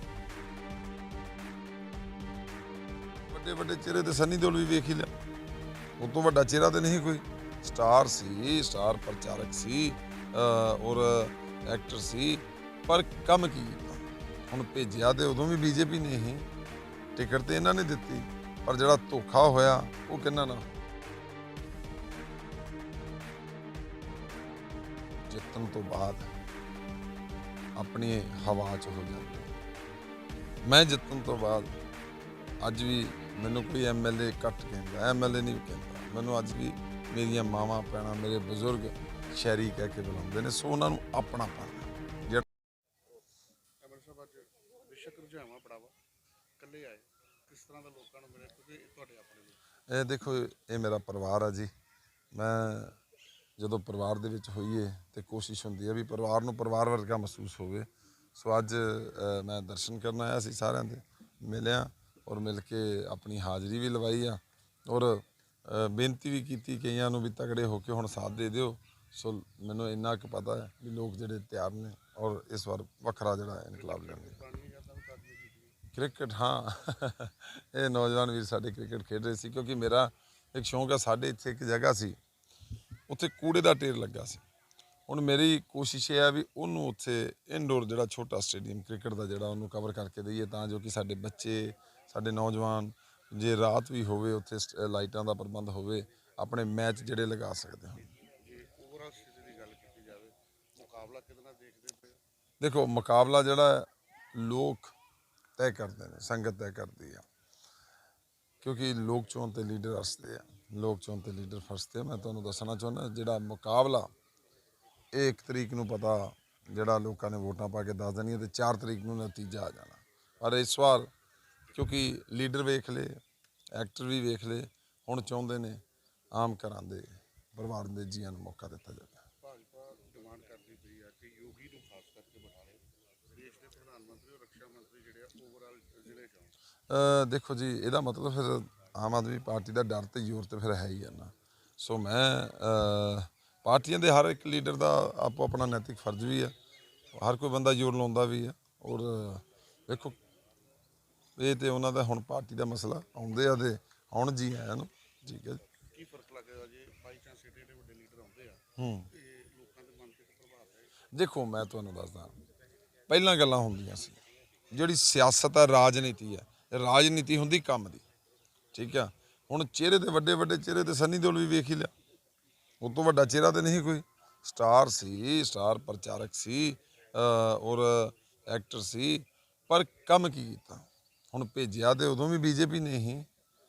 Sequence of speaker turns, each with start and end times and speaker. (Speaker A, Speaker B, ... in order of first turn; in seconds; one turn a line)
Speaker A: 3.3-5.1
Speaker A: 6.0-16.5
Speaker A: 17.2-20.7
Speaker A: 25.3-26.3
Speaker A: 27.8-29.6
Speaker A: 30.6-31.8
Speaker A: 32.6-42.5
Speaker B: 43.8-46.0
Speaker B: 46.6-49.6
Speaker A: 49.9-51.7
Speaker A: 52.3-53.0
Speaker A: 53.6-74.4
Speaker B: 73.7-75.8
Speaker A: 75.9-82.2
Speaker A: 83.1-84.4
Speaker A: 85.1-98.0
Speaker B: 98.4-102.2
Speaker A: 102.6-105.0
Speaker A: 105.6-107.2
Speaker A: 108.6-114.1
Speaker A: 115.1-121.1
Speaker A: 121.7-123.2
Speaker A: 123.8-129.2
Speaker B: 129.4-136.5
Speaker A: 136.9-146.6
Speaker A: 147.1-150.2
Speaker A: 151.4-155.6
Speaker B: 155.9-160.9
Speaker A: 158.8-159.1
Speaker A: 161.1-162.3
Speaker A: 163.1-164.2
Speaker A: 164.7-168.0
Speaker A: 168.7-171.9
Speaker A: 172.8-183.3